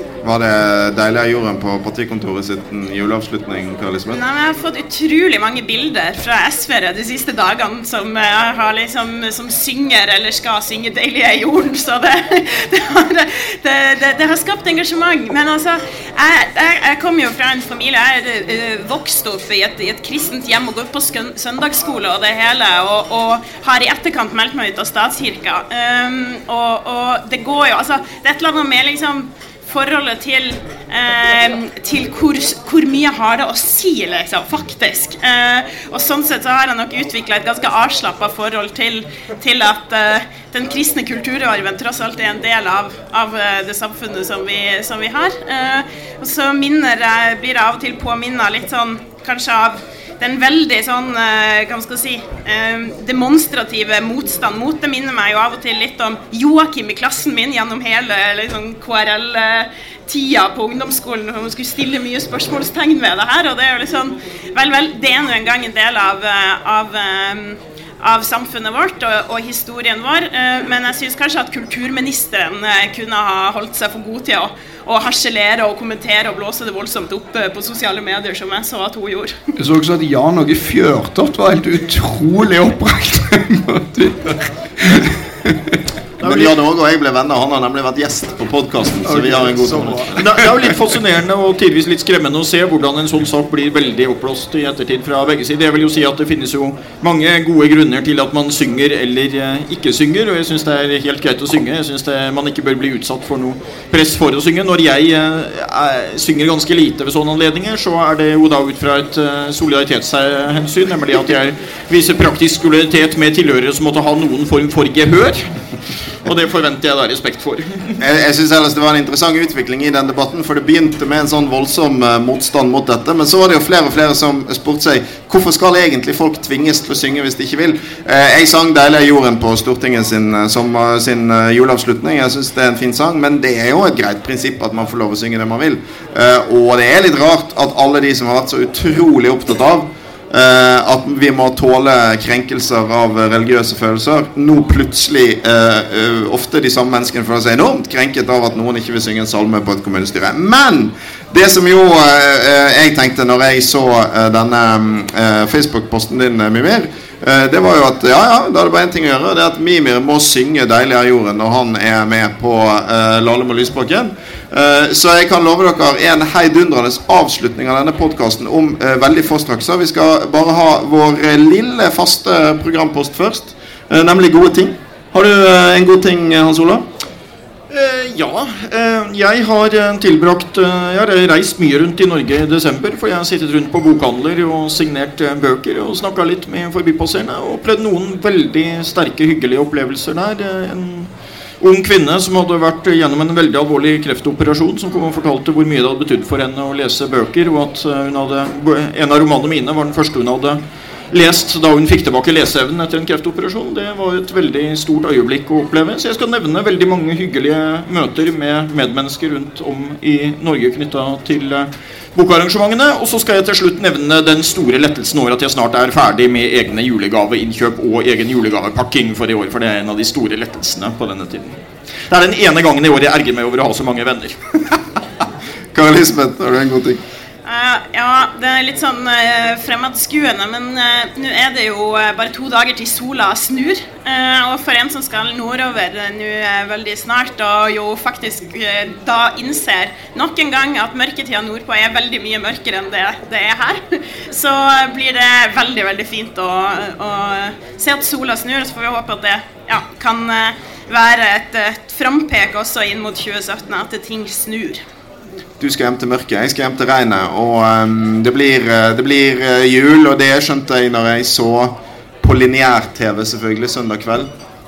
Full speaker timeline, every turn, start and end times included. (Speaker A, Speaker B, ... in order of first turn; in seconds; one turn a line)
Speaker A: 0.2-4.2
Speaker B: 4.1-79.3
Speaker C: 79.6-85.8
Speaker D: 86.2-86.5
Speaker A: 86.2-90.2
Speaker C: 89.0-90.5
Speaker D: 90.2-115.5
Speaker D: 116.2-118.0
Speaker A: 118.0-176.9
Speaker D: 177.7-200.6
Speaker D: 201.1-221.6
Speaker D: 222.1-224.6
Speaker A: 225.7-227.0
Speaker B: 227.4-254.8
Speaker A: 255.6-264.3